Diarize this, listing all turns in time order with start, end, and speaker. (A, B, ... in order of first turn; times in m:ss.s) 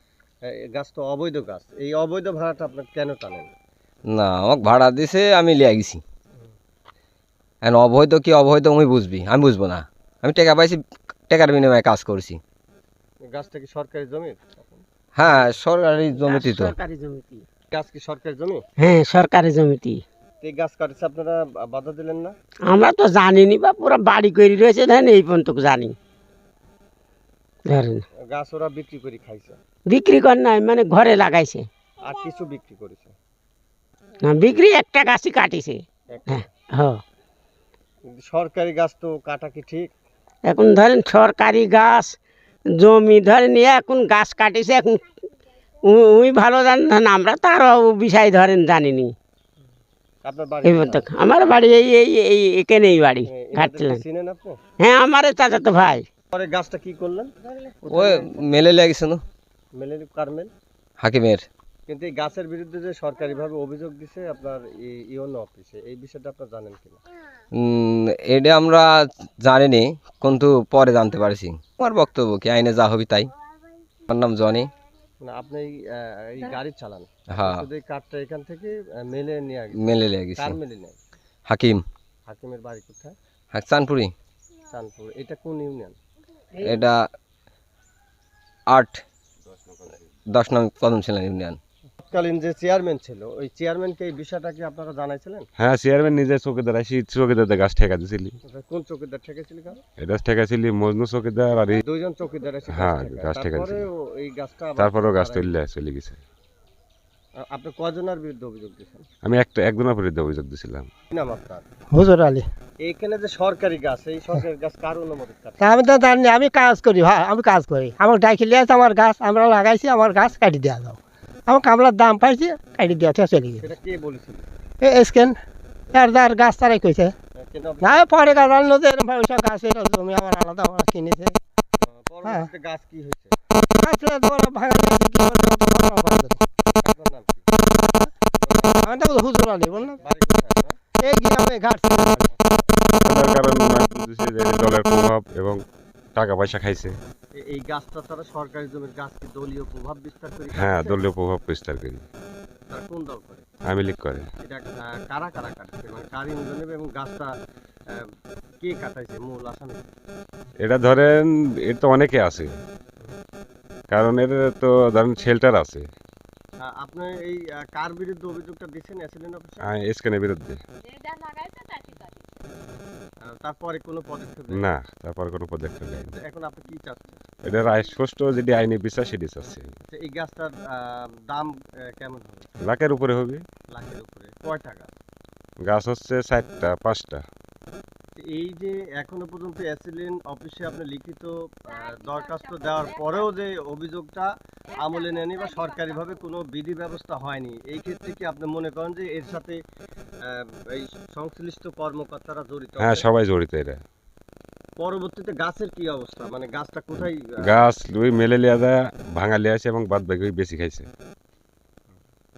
0:00.4-0:03.5 A
0:04.1-0:06.0 B
0:07.6-0:12.4 B
0:13.2-0:14.8 A
0:15.1-0:16.7 B
0:16.2-0:17.4 C
0:17.7-0:18.6 A
0:18.8-0:20.0 C
0:20.4-0:22.3 A
0:22.7-0:26.0 C
0:27.7-0:28.0 C
0:28.3-0:29.6 A
0:29.9-0:31.6 C
0:32.0-0:33.1 A
0:34.2-0:37.0 C
0:36.1-0:36.4 A
0:38.2-0:39.9 A
0:40.4-0:42.1 C
0:42.8-0:45.0 C
0:45.8-0:49.1 C
0:50.2-0:51.1 A
0:50.6-0:54.0 C
0:53.2-0:54.6 A
0:54.8-0:56.1 C
0:56.3-0:58.4 A
0:57.9-0:59.2 B
0:59.8-1:00.5 A
1:01.0-1:01.4 B
1:01.9-1:07.0 A
1:07.6-1:13.3 B
1:14.0-1:14.7 B
1:15.2-1:21.0 A
1:17.3-1:17.6 B
1:19.8-1:20.6 B
1:21.5-1:21.8 B
1:22.2-1:23.2 A
1:23.5-1:24.1 B
1:24.7-1:26.0 A
1:26.6-1:27.0 B
1:28.7-1:29.0 B
1:30.3-1:31.6 B
1:32.0-1:35.5 A
1:35.6-1:38.4 D
1:38.5-1:39.8 A
1:40.0-1:41.8 D
1:41.8-1:45.5 A
1:42.7-1:43.9 D
1:44.8-1:46.2 D
1:47.4-1:49.0 A
1:49.2-1:50.9 D
1:51.1-1:51.6 A
1:51.9-1:52.4 E
1:52.8-1:55.8 A
1:55.6-2:03.6 E
2:03.6-2:04.5 A
2:04.8-2:05.4 E
2:05.9-2:07.1 E
2:07.4-2:08.1 A
2:07.8-2:11.4 E
2:11.8-2:13.3 A
2:13.8-2:16.4 E
2:16.8-2:17.5 A
2:18.4-2:18.9 A
2:18.8-2:20.0 E
2:19.9-2:20.7 A
2:21.0-2:22.4 E
2:23.0-2:25.6 D
2:26.2-2:27.0 D
2:27.4-2:31.1 A
2:30.5-2:32.0 D
2:32.7-2:33.5 A
2:33.6-2:34.3 D
2:34.4-2:37.3 A
2:38.6-2:39.9 A
2:40.6-2:42.5 D
2:43.9-2:45.9 D
2:46.6-2:49.6 A
2:49.6-2:50.6 D
2:53.2-2:54.7 A
2:54.5-2:56.1 D
2:56.1-2:57.2 A
2:57.4-2:59.7 D
2:59.9-3:02.4 A
3:02.6-3:03.4 D
3:03.7-3:04.9 A
3:05.6-3:07.2 D
3:08.2-3:19.6 A
3:20.2-3:23.1 A
3:22.8-3:23.8 D
3:24.8-3:27.6 A
3:27.4-3:30.9 D